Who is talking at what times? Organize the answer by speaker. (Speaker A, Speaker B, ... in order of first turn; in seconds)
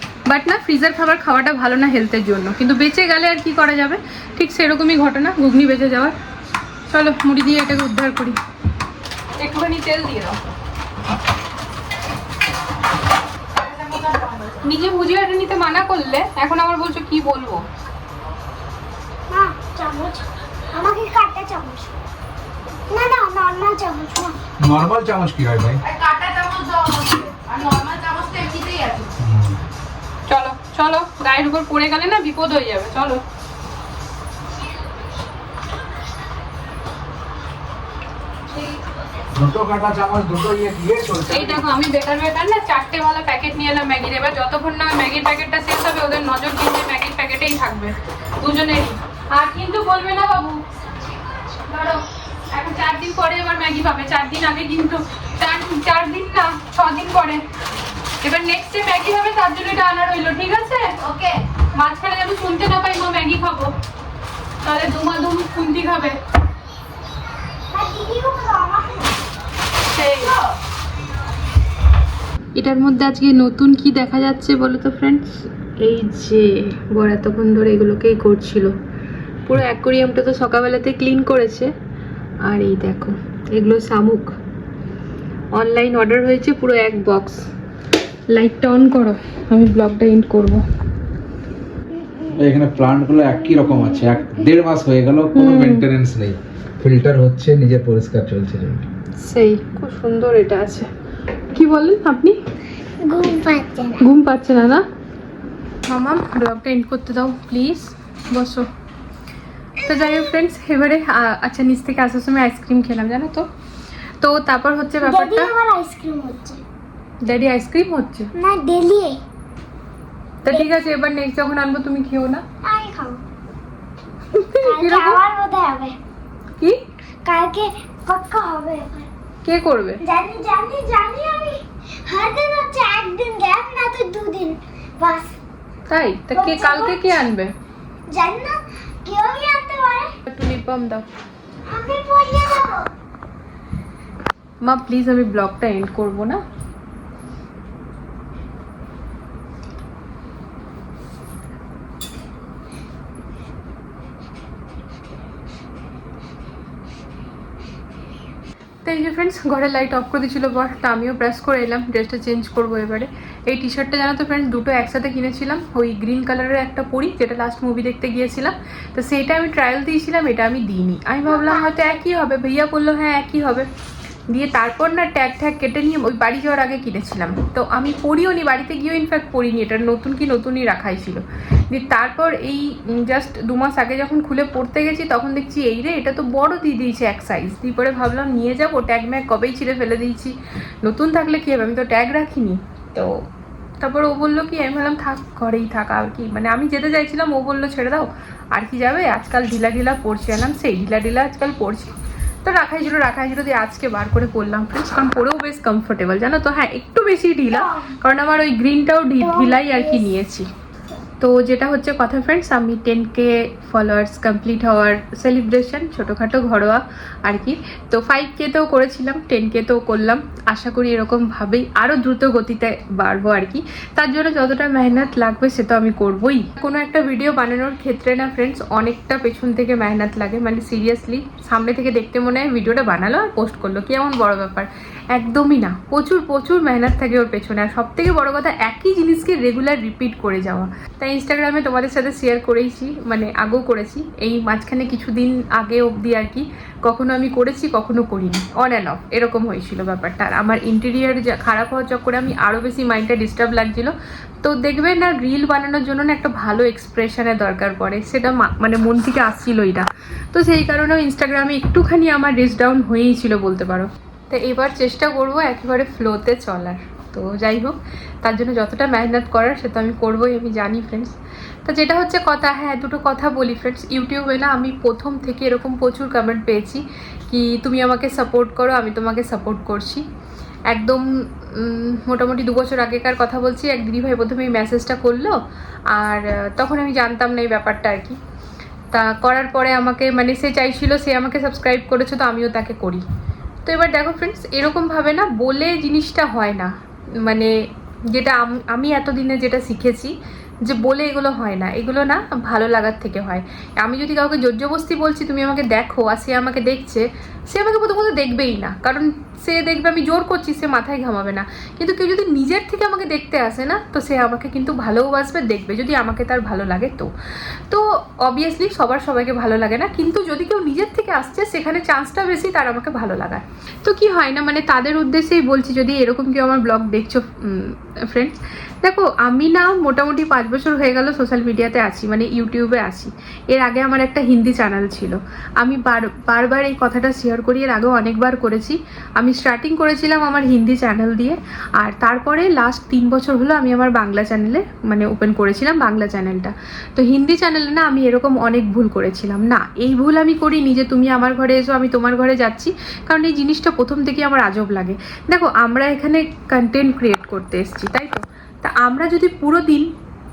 Speaker A: 0.3-6.1, 6.9-8.4, 9.4-10.4, 13.6-17.6, 25.8-29.1, 30.3-33.2, 41.3-50.6, 51.7-57.4, 58.2-63.7, 64.6-66.2, 69.8-70.3, 72.5-78.8, 79.5-81.7, 82.4-84.3, 85.5-87.4, 88.3-90.6, 95.3-95.8, 99.2-100.9, 101.5-102.4, 104.0-104.8, 105.9-108.7, 109.8-113.5, 114.2-115.5, 117.2-118.3, 120.4-122.4, 124.3-125.2, 129.4-130.0, 135.9-137.5, 140.3-141.1, 144.6-146.4, 158.8-173.7, 174.3-193.2, 193.8-210.5, 211.2-271.1, 271.6-280.0, 280.7-285.4, 285.9-288.2, 288.9-293.0, 293.6-296.7, 297.2-297.5, 298.1-317.1, 317.7-359.9
Speaker B: 19.3-21.9, 22.9-24.4, 67.7-69.1, 103.0-104.0, 115.0-116.6, 118.3-119.2, 122.6-123.2, 124.6-126.0, 127.2-129.1, 130.0-135.4, 136.3-137.2, 138.1-140.1, 141.7-142.9, 171.3-171.9, 207.5-207.9, 209.2-210.1
Speaker C: 24.6-25.8, 29.2-29.6, 39.3-41.6, 92.3-98.8